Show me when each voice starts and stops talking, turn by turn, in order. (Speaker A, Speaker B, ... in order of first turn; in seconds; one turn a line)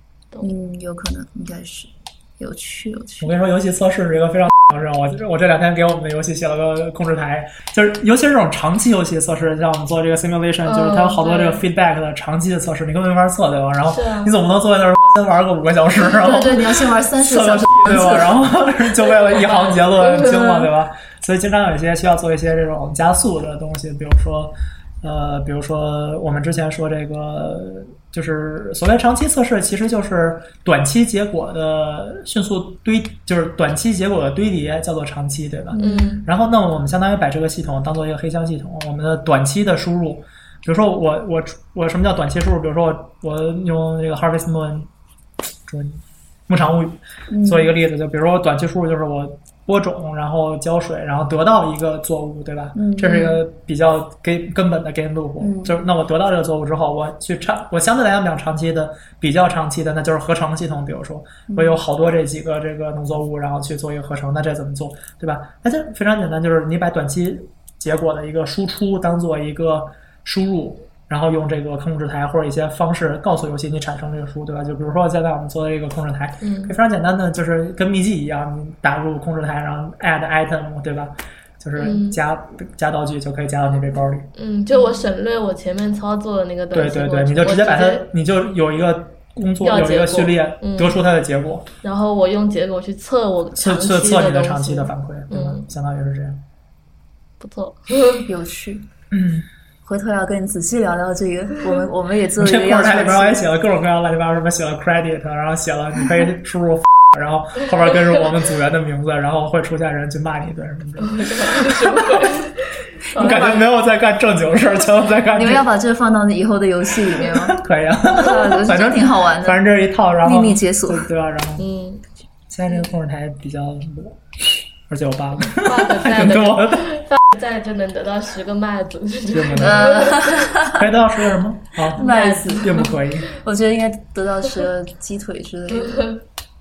Speaker A: 0.4-3.4
Speaker B: 3.2-44.9
Speaker C: 10.7-11.7
Speaker C: 13.9-14.3
Speaker A: 16.0-18.4
Speaker C: 19.4-20.7
Speaker A: 35.7-36.2
Speaker C: 35.8-36.3
Speaker B: 45.7-84.3
Speaker A: 47.3-47.7
Speaker A: 52.8-53.3
Speaker C: 53.0-53.3
Speaker A: 55.4-55.8
Speaker A: 61.5-61.8
Speaker C: 76.4-76.7
Speaker C: 81.8-82.2
Speaker C: 84.3-88.1
Speaker B: 86.7-91.7
Speaker C: 89.6-91.0
Speaker C: 91.8-95.7
Speaker B: 93.6-96.4
Speaker C: 97.4-98.3
Speaker A: 98.2-98.9
Speaker B: 99.1-99.5
Speaker A: 99.8-103.5
Speaker B: 102.4-112.5
Speaker C: 111.0-113.7
Speaker A: 113.1-113.6
Speaker B: 113.2-115.7
Speaker A: 115.3-119.6
Speaker B: 117.2-121.7
Speaker A: 120.2-121.1
Speaker C: 121.6-122.0
Speaker B: 122.5-126.9
Speaker C: 125.5-130.5
Speaker B: 129.3-130.0
Speaker A: 129.6-130.9
Speaker B: 130.7-133.3
Speaker A: 131.9-136.1
Speaker C: 132.0-133.0
Speaker C: 135.8-136.2